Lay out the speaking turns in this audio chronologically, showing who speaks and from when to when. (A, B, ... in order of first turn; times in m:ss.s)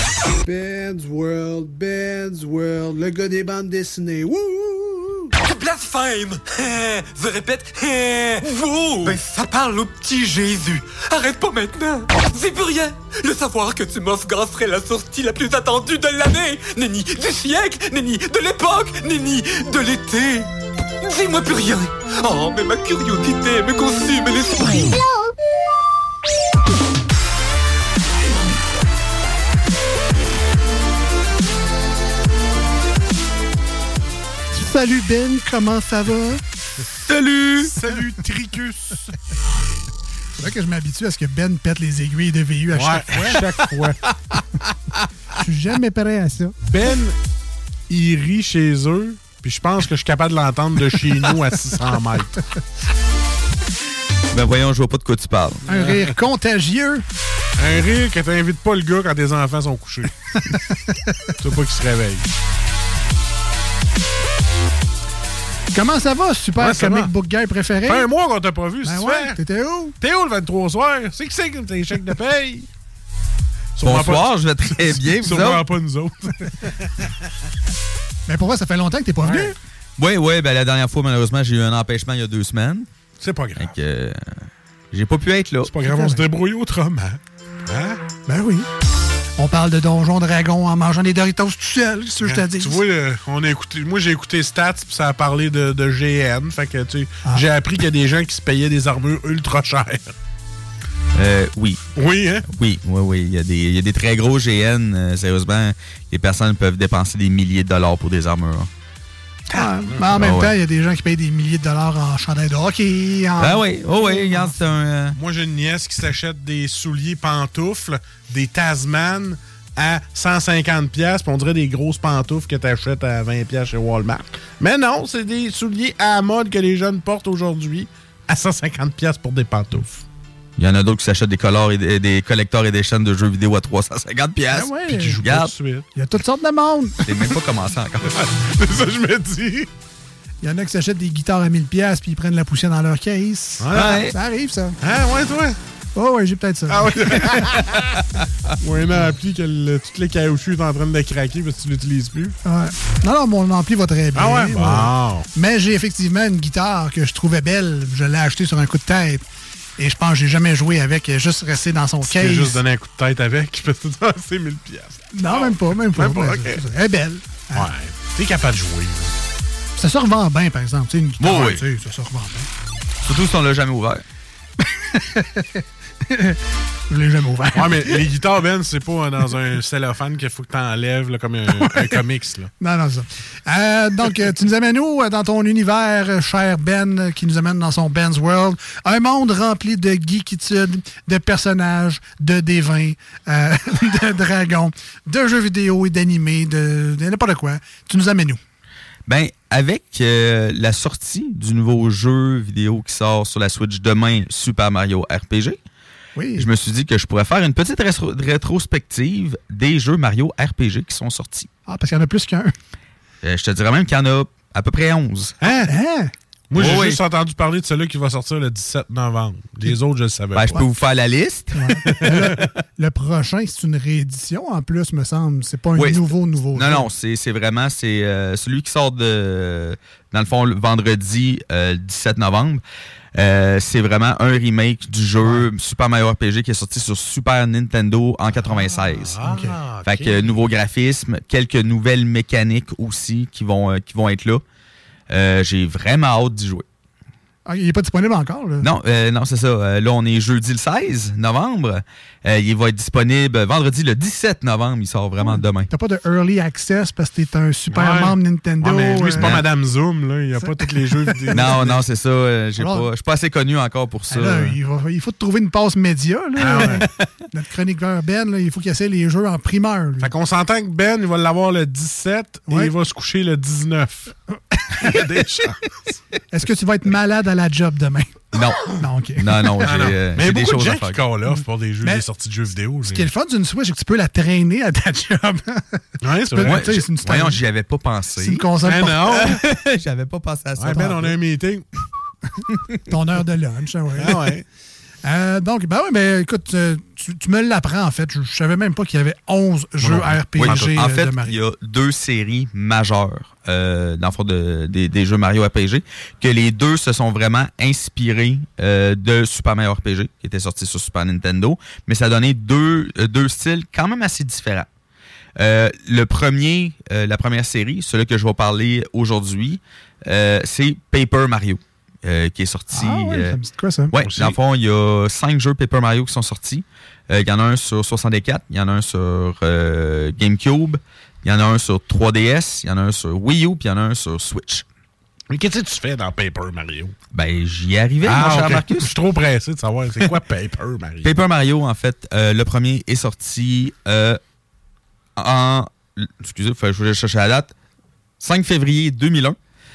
0:00.4-0:05.4 A
0:05.4-0:08.3 B
0:08.3-0:09.2 A
0:08.8-0:20.5 B
0:21.0-0:24.6 B
0:34.5-0:36.4 C
0:37.1-0:37.7 D
0:37.6-0:39.2 E
0:40.4-0:43.4 C
0:42.7-0:44.4 E
0:45.3-0:46.5 C
0:46.6-0:47.2 E
0:47.9-0:52.4 E
0:54.3-0:55.6 D
0:55.7-0:56.1 E
0:55.7-0:57.0 C
0:57.6-1:00.1 E
1:00.3-1:01.3 C
1:01.4-1:02.2 E
1:05.7-1:08.1 C
1:06.6-1:07.1 E
1:07.8-1:09.4 E
1:08.8-1:10.0 C
1:10.0-1:12.7 E
1:13.8-1:14.3 E
1:13.8-1:15.6 D
1:14.8-1:17.2 E
1:18.3-1:19.6 C
1:19.2-1:19.5 E
1:20.0-1:22.9 D
1:23.2-1:23.8 E
1:23.6-1:25.7 D
1:25.6-1:28.0 E
1:25.8-1:26.2 C
1:28.2-1:28.6 C
1:29.4-1:32.8 C
1:32.2-1:40.1 E
1:41.1-1:41.8 D
1:41.9-1:42.5 E
1:42.5-1:48.7 D
1:49.5-1:54.5 C
1:50.1-1:50.5 D
1:53.4-1:55.2 D
1:55.1-2:10.0 E
2:10.6-2:15.5 D
2:14.5-2:15.2 C
2:14.8-2:15.9 E
2:15.9-2:17.1 C
2:17.0-2:18.1 D
2:18.1-2:19.7 E
2:20.4-2:24.8 C
2:23.6-2:24.0 E
2:23.7-2:24.1 D
2:24.8-2:25.6 E
2:25.9-2:27.6 C
2:26.7-2:27.8 E
2:27.8-2:28.0 D
2:28.6-2:32.3 E
2:32.4-2:39.3 C
2:34.1-2:35.3 E
2:39.8-2:42.6 C
2:42.0-2:46.6 E
2:45.1-2:47.7 C
2:47.5-2:49.1 E
2:49.8-2:52.5 C
2:51.2-2:51.6 D
2:53.0-2:54.0 D
2:54.6-2:56.4 C
2:56.9-2:58.0 C
2:57.5-3:02.5 E
3:01.6-3:02.0 C
3:02.6-3:18.4 C
3:19.1-3:25.6 D
3:26.2-3:26.5 C
3:26.4-3:31.5 D
3:31.7-3:32.5 C
3:33.2-3:35.3 D
3:35.4-3:35.7 E
3:35.6-3:36.1 C
3:36.5-3:40.6 E
3:36.5-3:37.0 D
3:40.3-3:42.4 D
3:41.5-3:46.9 C
3:41.9-3:42.3 E
3:45.8-3:52.6 D
3:53.1-3:59.2 D
3:58.6-4:00.3 E
3:59.2-3:59.6 C
3:59.8-4:04.4 D
4:05.1-4:06.6 D
4:07.4-4:08.7 C
4:08.6-4:15.7 D
4:15.2-4:19.4 C
4:17.7-4:21.8 E
4:19.2-4:19.4 D
4:20.4-4:21.7 C
4:21.3-4:24.6 D
4:22.6-4:22.9 C
4:24.1-4:30.1 C
4:26.4-4:26.8 E
4:26.6-4:26.9 D
4:30.0-4:34.1 E
4:32.5-4:32.7 C
4:34.7-4:35.7 E
4:36.3-4:39.9 C
4:38.3-4:41.0 D
4:39.6-4:43.0 E
4:42.8-4:47.4 C
4:46.0-4:46.8 E
4:46.4-4:48.5 D
4:48.2-4:49.2 C
4:48.6-4:49.4 E
4:49.0-4:50.8 D
4:50.6-4:51.6 E
4:50.7-4:51.1 C
4:52.8-4:54.3 C
4:54.0-4:54.4 E
4:55.0-5:01.4 C
4:59.8-5:00.7 E
5:00.4-5:14.7 D
5:15.4-5:23.4 D
5:22.7-5:23.9 C
5:23.9-5:34.6 D
5:24.0-5:24.4 E
5:35.3-5:36.9 E
5:37.1-5:38.9 D
5:38.0-5:41.2 E
5:41.0-5:44.2 D
5:45.2-5:47.5 D
5:48.2-5:49.4 D